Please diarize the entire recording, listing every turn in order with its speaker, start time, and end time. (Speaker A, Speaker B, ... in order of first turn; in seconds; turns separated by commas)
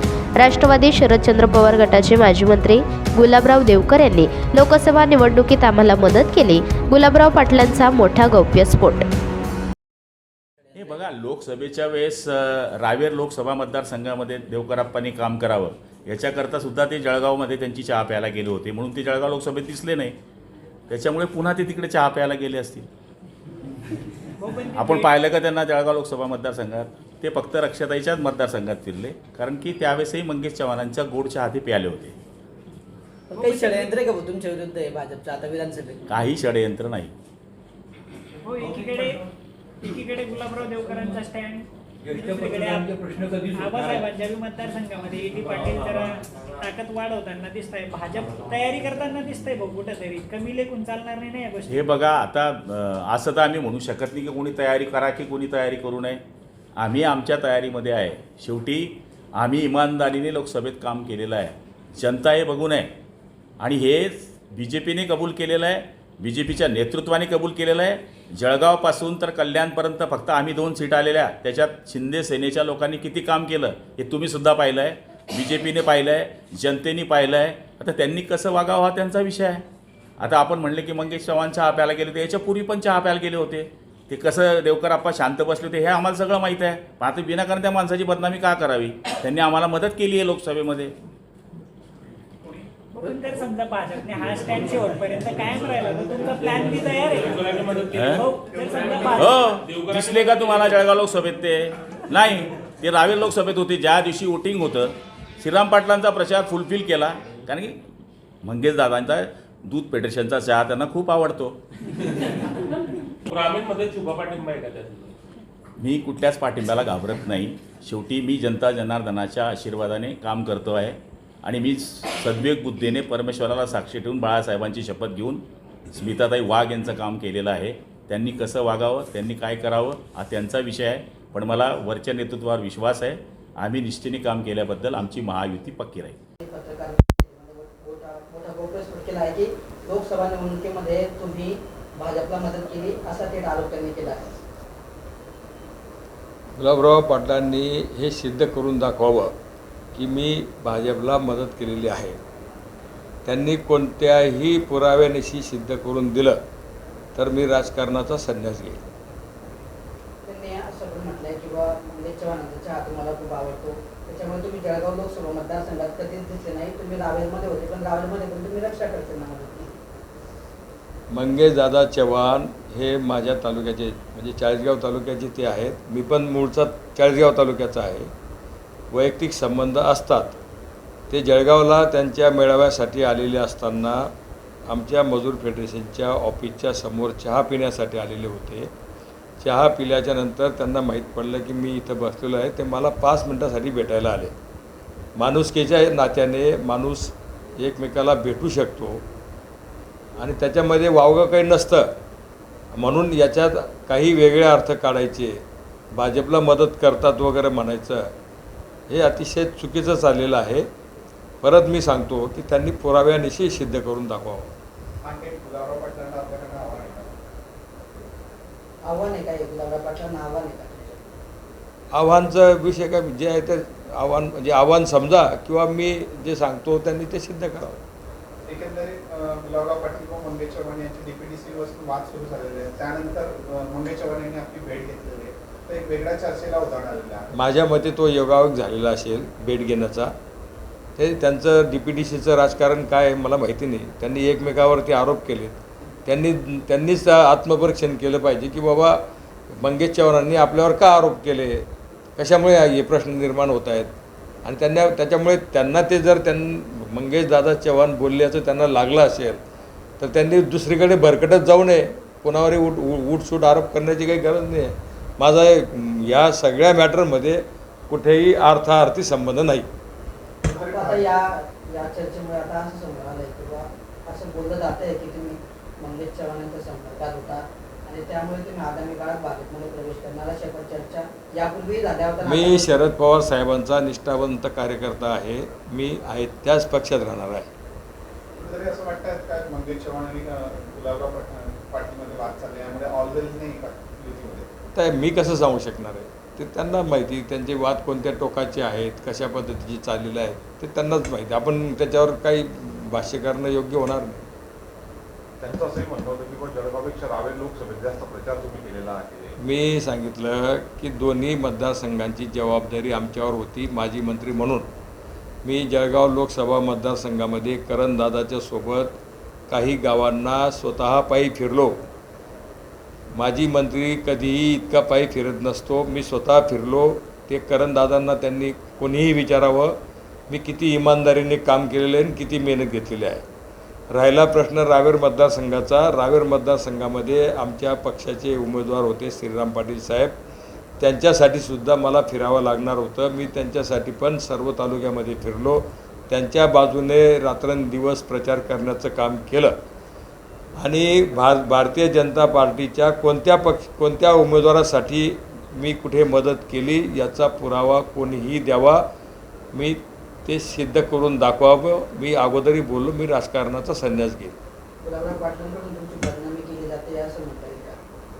Speaker A: 0.4-9.1, Speaker B: 10.7-20.2, Speaker B: 20.9-22.9, Speaker C: 24.4-25.1, Speaker B: 24.8-32.2, Speaker C: 33.3-34.0, Speaker D: 33.4-36.0, Speaker B: 36.1-37.1, Speaker C: 38.4-39.3, Speaker C: 39.8-51.9, Speaker B: 51.7-56.2, Speaker B: 56.8-62.9, Speaker B: 63.6-79.7, Speaker B: 80.2-90.9, Speaker C: 92.9-99.4, Speaker E: 96.7-100.9, Speaker B: 97.9-98.2, Speaker B: 99.1-107.8, Speaker B: 108.4-111.6, Speaker E: 113.3-115.1, Speaker B: 115.8-136.2, Speaker D: 136.4-144.3, Speaker F: 146.6-149.3, Speaker F: 149.9-152.2, Speaker F: 153.2-156.4, Speaker F: 157.2-158.8, Speaker D: 160.2-169.8, Speaker F: 171.1-178.1, Speaker F: 178.9-180.4, Speaker F: 181.1-184.1, Speaker F: 184.7-188.7, Speaker F: 189.4-194.3, Speaker F: 195.2-199.0, Speaker F: 200.2-202.0, Speaker F: 202.7-208.1, Speaker F: 208.9-210.7, Speaker F: 211.4-214.5, Speaker G: 215.0-217.1, Speaker D: 218.8-221.1, Speaker F: 221.9-227.8, Speaker G: 228.4-237.3, Speaker F: 237.3-240.2, Speaker F: 241.0-253.9, Speaker F: 254.4-259.4, Speaker F: 260.0-269.7, Speaker G: 270.4-271.2, Speaker D: 270.5-282.8, Speaker F: 282.2-287.5, Speaker G: 288.4-294.5, Speaker F: 294.8-304.3, Speaker H: 305.4-309.4, Speaker F: 309.4-314.7, Speaker F: 315.4-319.0, Speaker F: 319.5-321.8, Speaker F: 323.1-329.8, Speaker F: 330.3-333.2, Speaker F: 333.9-340.2, Speaker F: 340.8-349.6, Speaker F: 350.6-358.9, Speaker F: 359.5-364.4, Speaker D: 364.8-367.8